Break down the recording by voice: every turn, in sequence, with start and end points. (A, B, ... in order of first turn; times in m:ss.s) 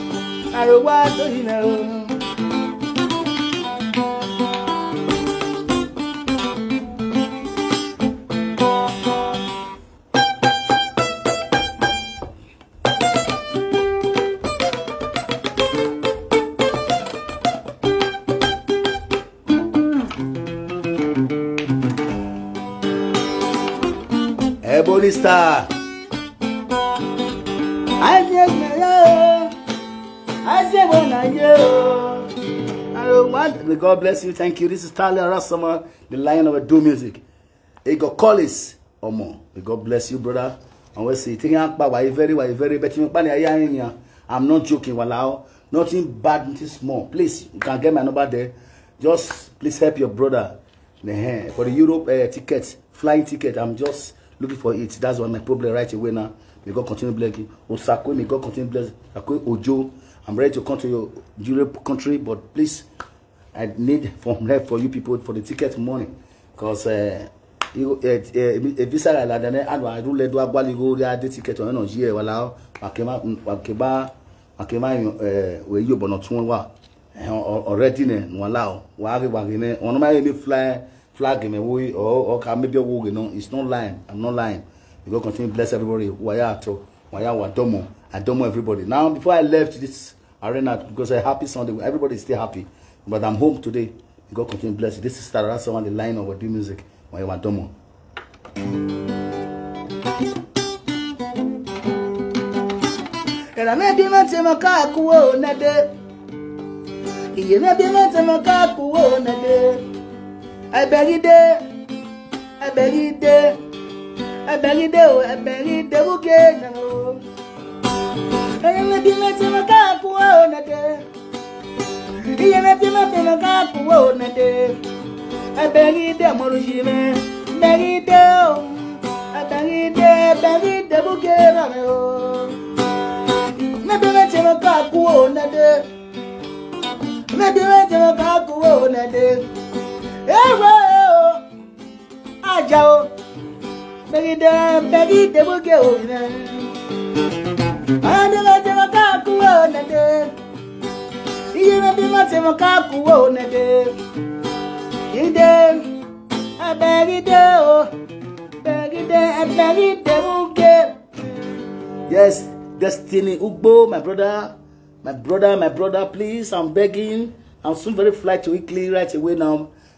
0:00.5-0:02.2 A
0:24.6-0:25.7 A
0:28.0-0:29.5 A
0:30.4-0:32.3 A
0:32.9-0:37.2 A
0:37.8-1:02.9 A
1:03.5-1:37.7 A
1:43.5-1:45.9 A
1:47.3-1:49.8 A
1:50.7-1:51.6 A
1:52.6-1:53.6 A
1:54.5-1:57.2 A
1:58.6-2:01.0 A
2:02.4-2:04.8 A
2:05.5-2:12.6 A
2:13.4-2:15.8 A
2:17.3-2:19.4 A
2:20.2-2:21.4 A
2:22.4-2:23.1 A
2:24.1-2:26.7 A
2:28.0-2:30.3 A
2:31.5-2:33.9 A
2:35.1-2:35.9 A
2:36.6-2:37.9 A
2:38.6-2:41.0 A
2:42.1-2:49.7 A